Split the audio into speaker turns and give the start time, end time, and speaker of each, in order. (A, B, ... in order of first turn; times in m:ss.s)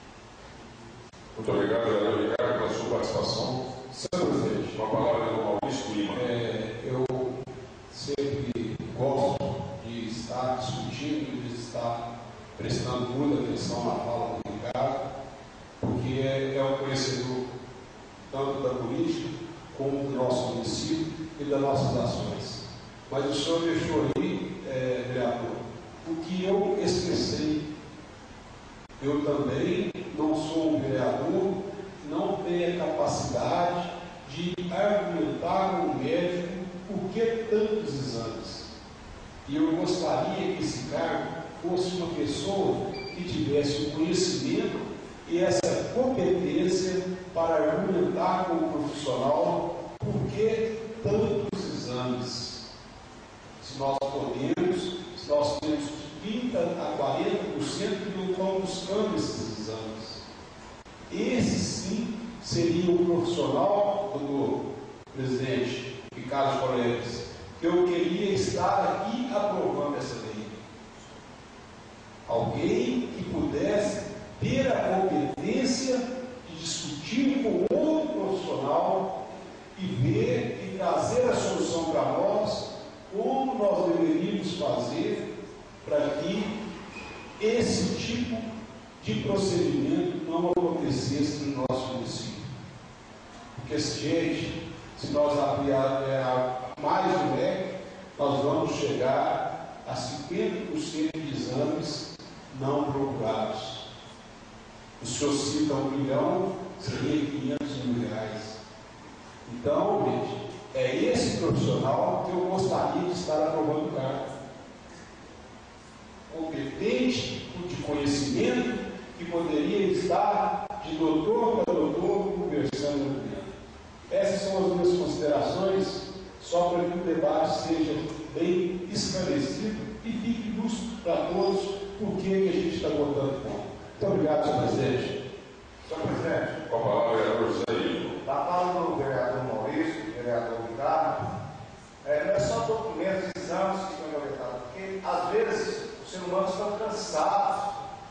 0:01.4-0:03.6 A
0:03.9-0:05.0 B
0:04.7-0:06.3 A
0:06.1-0:12.0 B
0:12.6-0:15.0 B
0:15.8-0:17.4 B
0:18.3-0:27.7 B
0:29.0-0:38.7 B
0:39.4-0:52.6 B
0:53.6-1:00.2 B
1:01.1-1:10.6 B
1:12.3-1:19.2 B
1:19.8-1:25.3 B
1:25.8-1:26.6 B
1:27.4-1:28.4 B
1:29.0-1:32.4 B
1:33.6-1:43.8 B
1:45.0-1:48.6 B
1:49.4-1:54.3 B
1:56.3-2:03.5 B
2:04.1-2:15.2 B
2:15.9-2:16.6 C
2:16.7-2:18.1 A
2:18.2-2:21.3 C
2:22.0-2:27.7 C